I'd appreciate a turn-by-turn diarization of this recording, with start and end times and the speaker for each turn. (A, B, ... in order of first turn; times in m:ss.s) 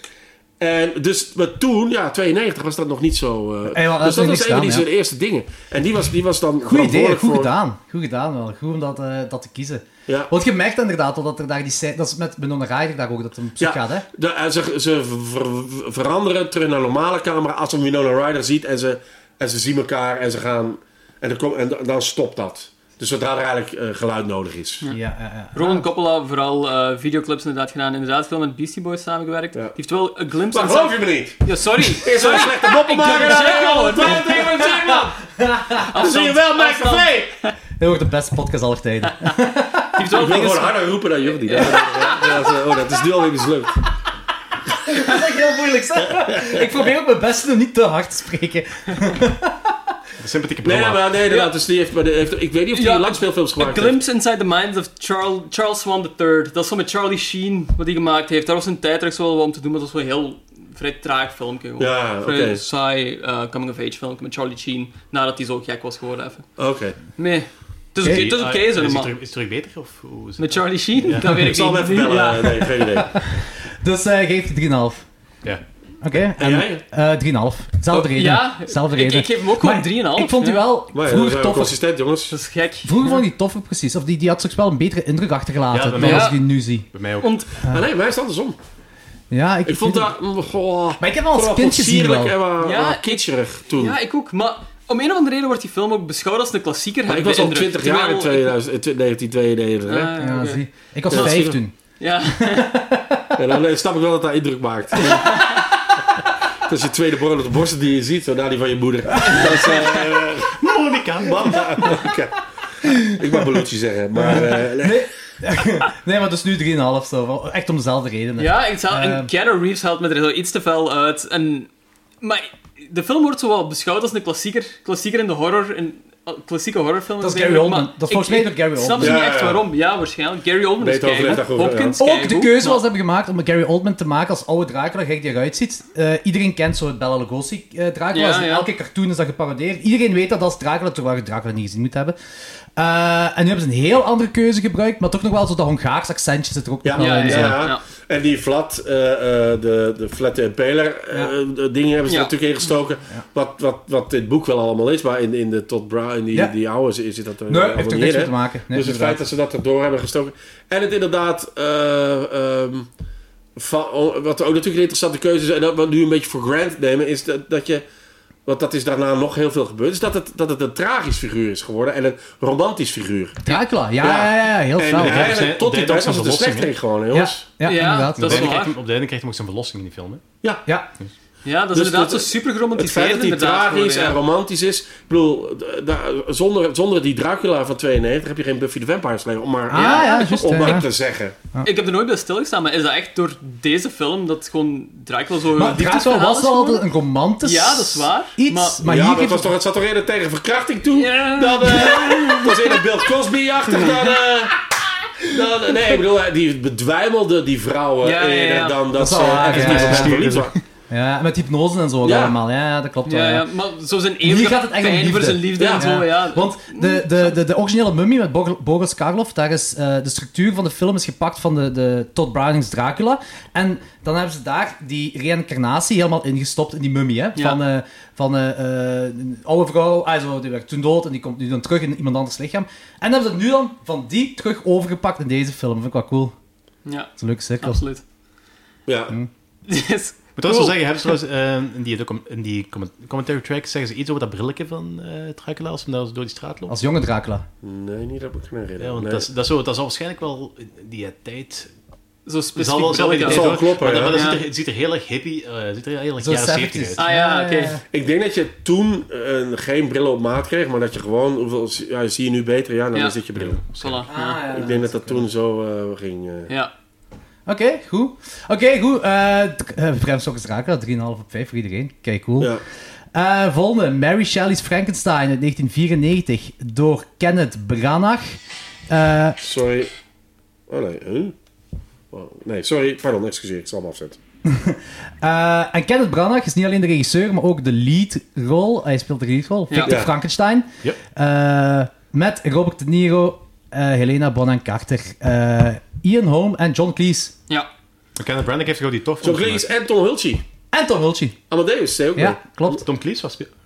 0:00.6-0:07.5 A
0:03.7-0:04.9 B
0:06.6-0:14.1 B
0:10.1-0:10.3 A
0:13.6-0:24.8 A
0:24.9-0:25.9 B
0:25.5-0:35.0 C
0:30.5-0:35.2 A
0:35.4-0:35.9 B
0:35.9-0:37.5 C
0:36.0-0:37.3 A
0:37.8-0:40.0 B
0:40.0-0:42.3 C
0:40.1-0:43.8 A
0:44.8-0:49.8 B
0:50.2-0:51.2 D
0:50.6-0:54.0 A
0:51.3-0:51.5 C
0:52.7-1:06.5 C
1:01.8-1:02.6 A
1:06.6-1:07.0 A
1:07.2-1:09.1 C
1:08.0-1:11.4 D
1:10.4-1:12.8 C
1:11.3-1:13.2 A
1:13.8-1:15.0 B
1:16.0-1:21.8 B
1:16.4-1:16.8 A
1:17.9-1:20.7 C
1:20.9-1:22.4 A
1:22.3-1:23.2 C
1:22.8-1:26.9 B
1:25.7-1:26.4 D
1:26.0-1:26.4 C
1:26.9-1:27.3 D
1:27.2-1:27.5 C
1:27.6-1:28.6 A
1:29.3-1:30.1 B
1:29.7-1:34.0 A
1:31.0-1:32.4 B
1:32.6-1:33.2 C
1:33.8-1:38.5 C
1:37.1-1:40.1 A
1:39.9-1:41.4 C
1:40.2-1:41.8 B
1:41.1-1:41.6 A
1:42.0-1:42.7 C
1:42.4-1:43.3 B
1:43.4-1:45.5 A
1:45.1-1:45.6 C
1:46.6-1:50.6 A
1:50.5-1:52.0 D
1:51.2-1:55.0 A
1:54.2-1:59.3 B
1:58.4-2:01.7 C
2:02.2-2:12.8 C
2:07.2-2:09.2 B
2:09.0-2:09.6 A
2:10.8-2:12.0 A
2:12.0-2:22.2 B
2:18.1-2:18.7 C
2:22.8-2:27.7 B
2:26.8-2:42.9 A
2:27.0-2:27.8 C
2:32.1-2:32.3 C
2:37.5-2:39.2 B
2:43.6-2:47.8 A
2:48.5-2:53.4 A
2:53.4-2:55.4 B
2:54.0-2:57.4 A
2:55.0-2:56.7 D
2:57.1-2:58.5 B
2:57.6-2:58.8 C
2:58.2-3:00.2 D
3:01.4-3:04.2 C
3:01.7-3:11.4 A
3:09.7-3:10.9 B
3:09.8-3:10.8 C
3:11.6-3:16.8 C
3:15.6-3:19.5 B
3:17.4-3:18.8 C
3:18.8-3:24.6 A
3:20.9-3:23.0 C
3:25.3-3:30.5 A
3:28.0-3:28.8 C
3:28.9-3:30.2 B
3:29.5-3:30.6 D
3:30.9-3:33.4 B
3:32.0-3:32.4 A
3:33.1-3:37.4 C
3:34.2-3:56.3 B
3:35.6-3:35.9 A
3:56.8-3:58.0 C
3:57.2-3:57.8 B
3:58.9-3:59.2 A
3:59.7-4:00.8 C
4:00.4-4:06.8 D
4:06.7-4:07.4 B
4:07.6-4:09.3 A
4:08.8-4:11.7 D
4:12.3-4:14.4 C
4:12.6-4:17.0 D
4:13.2-4:14.2 A
4:16.2-4:17.8 B
4:17.0-4:17.8 C
4:17.9-4:26.5 A
4:23.8-4:24.3 C
4:24.1-4:25.3 B
4:27.5-4:32.5 B
4:33.1-4:39.4 B
4:39.4-4:39.9 A
4:40.7-4:41.4 A
4:42.1-4:44.2 A
4:44.4-4:57.3 B
4:49.7-4:50.0 C
4:49.8-4:50.1 A
4:58.2-4:59.7 D
4:59.2-5:00.4 A
5:00.7-5:01.4 B
5:01.5-5:02.4 A
5:02.2-5:02.8 B
5:02.7-5:03.5 D